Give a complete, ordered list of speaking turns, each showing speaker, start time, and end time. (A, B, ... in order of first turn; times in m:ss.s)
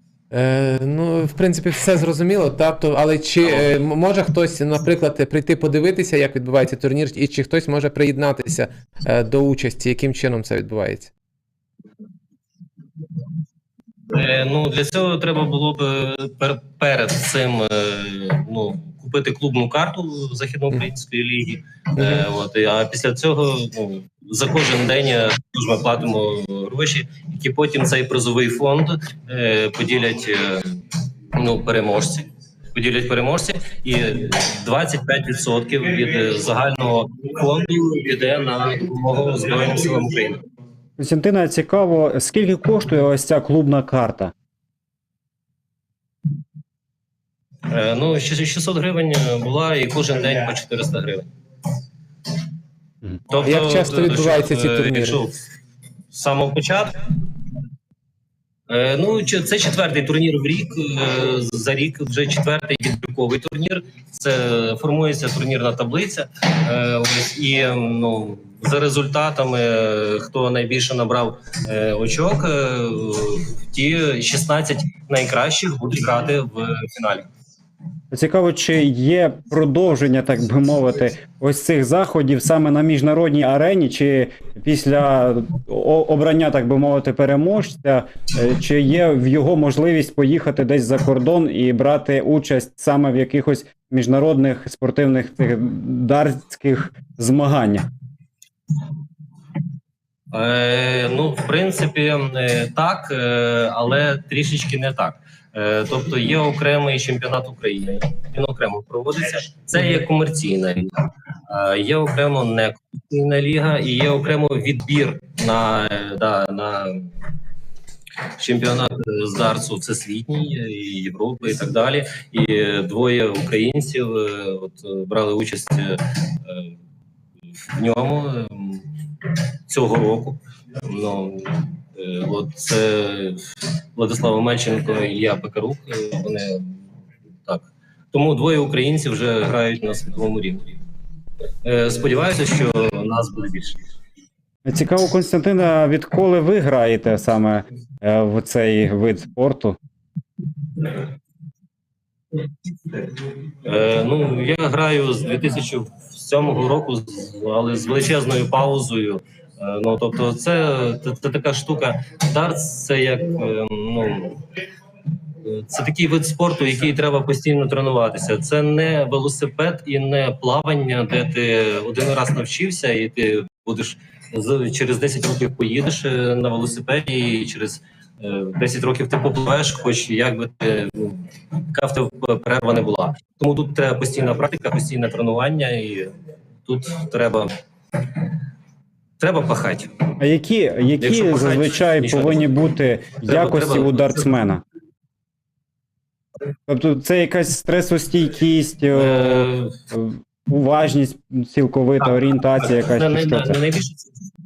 0:00.3-0:11.1 A
0:03.4-0:03.7 B
0:14.1-0:30.8 B
0:31.3-0:40.4 B
0:41.0-0:44.3 C
0:47.7-0:51.3 B
0:53.3-0:55.4 B
0:53.4-0:55.2 A
0:56.1-0:57.1 B
0:58.7-1:17.3 B
1:18.1-1:37.9 C
1:40.3-1:57.1 B
1:58.4-2:06.7 B
2:07.7-2:16.8 B
2:17.4-2:20.8 B
2:21.6-2:23.8 B
2:24.6-2:29.8 C
2:33.6-2:44.4 B
2:45.4-3:06.1 B
3:06.6-3:07.5 B
3:09.2-3:10.0 B
3:10.2-3:14.6 C
3:11.0-3:12.6 B
3:13.2-3:14.3 B
3:16.7-3:23.6 C
3:18.9-3:19.8 B
3:22.0-3:24.1 B